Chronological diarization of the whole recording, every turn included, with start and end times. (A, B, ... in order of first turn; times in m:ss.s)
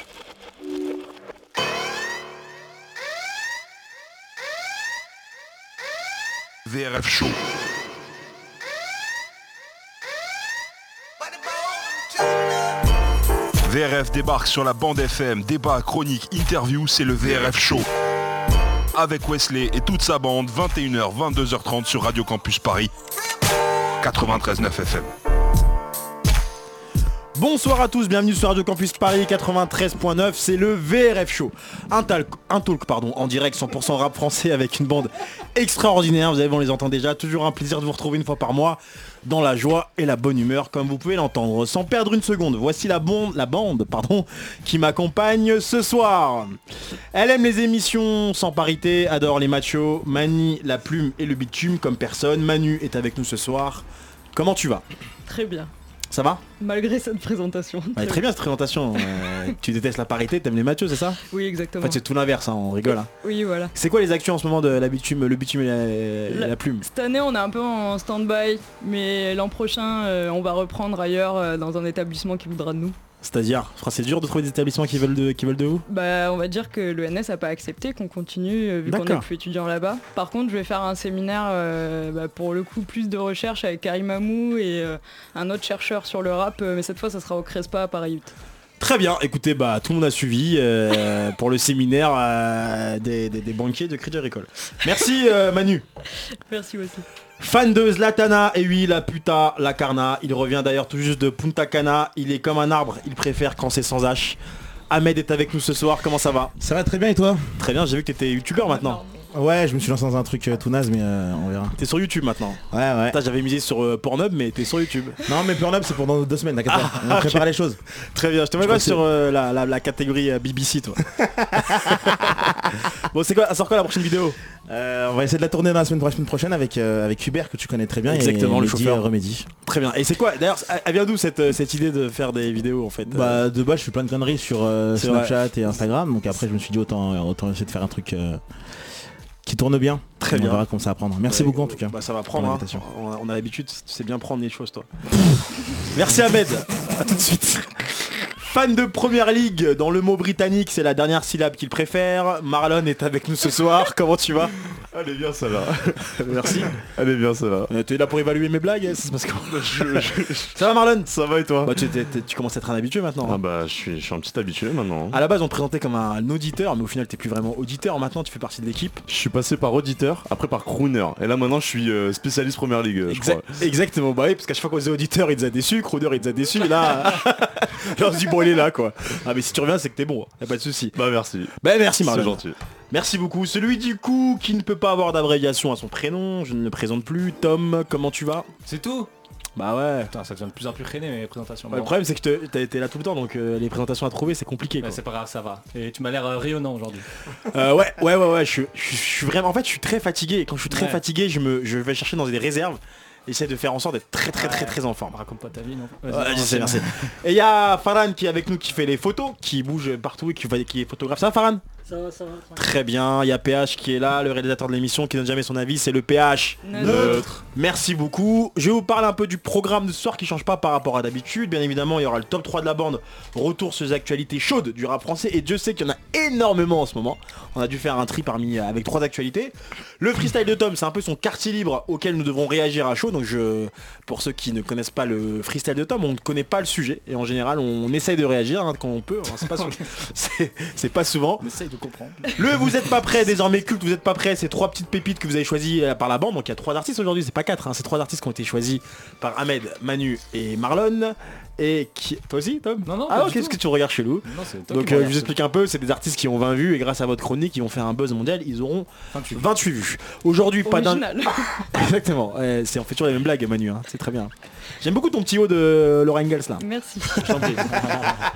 0:06.7-0:07.4 A
0:13.6-0:17.9 A
0:18.9-0:22.9 A
0:24.0-0:25.1 A
0:27.4-0:46.6 B
0:47.1-0:54.8 B
0:55.3-0:55.7 C
0:56.1-0:56.4 B
0:56.6-0:58.2 C
0:58.0-1:01.2 B
0:59.0-0:59.5 C
1:01.3-1:02.0 C
1:01.8-1:03.1 B
1:02.9-1:03.7 C
1:03.7-1:06.9 B
1:06.3-1:13.0 C
1:13.2-1:15.8 B
1:15.9-1:28.3 C
1:18.9-1:19.2 B
1:28.8-1:35.8 B
1:36.5-1:37.0 C
1:37.4-1:44.4 B
1:44.9-1:46.5 B
1:46.6-1:47.5 D
1:47.6-1:49.0 B
1:49.3-1:51.8 D
1:51.8-1:55.2 B
1:52.7-1:53.2 D
1:55.3-1:57.8 D
1:56.7-1:57.4 B
1:58.1-2:01.0 B
1:58.6-1:59.0 D
2:01.2-2:02.5 D
2:01.6-2:04.4 B
2:04.7-2:09.5 D
2:08.1-2:09.1 B
2:09.6-2:13.4 B
2:13.1-2:18.4 D
2:15.0-2:15.3 B
2:19.4-2:22.8 D
2:20.2-2:20.6 B
2:21.3-2:25.0 B
2:25.8-2:34.5 B
2:34.9-2:37.7 E
2:36.1-2:36.7 B
2:37.7-2:41.1 B
2:39.7-2:40.5 E
2:41.1-2:41.8 E
2:41.6-2:43.4 B
2:43.2-2:45.2 E
2:45.1-2:49.0 B
2:49.1-2:53.6 E
2:53.1-3:01.0 B
3:01.0-3:02.6 E
3:01.6-3:08.5 B
3:08.7-3:09.1 F
3:09.6-3:10.1 B
3:10.1-3:11.9 F
3:11.7-3:15.0 B
3:14.8-3:17.1 F
3:17.5-3:25.2 B
3:20.7-3:21.0 F
3:24.3-3:27.0 F
3:26.1-3:31.6 B
3:32.5-4:01.4 B
3:36.6-3:37.3 C
3:36.8-3:37.3 E
4:01.4-4:02.4 F
4:02.4-4:21.1 B
4:12.9-4:13.6 F
4:14.2-4:15.4 F
4:19.1-4:19.4 F
4:20.6-4:21.7 C
4:21.6-4:26.6 B
4:26.6-4:27.3 C
4:27.2-4:28.2 F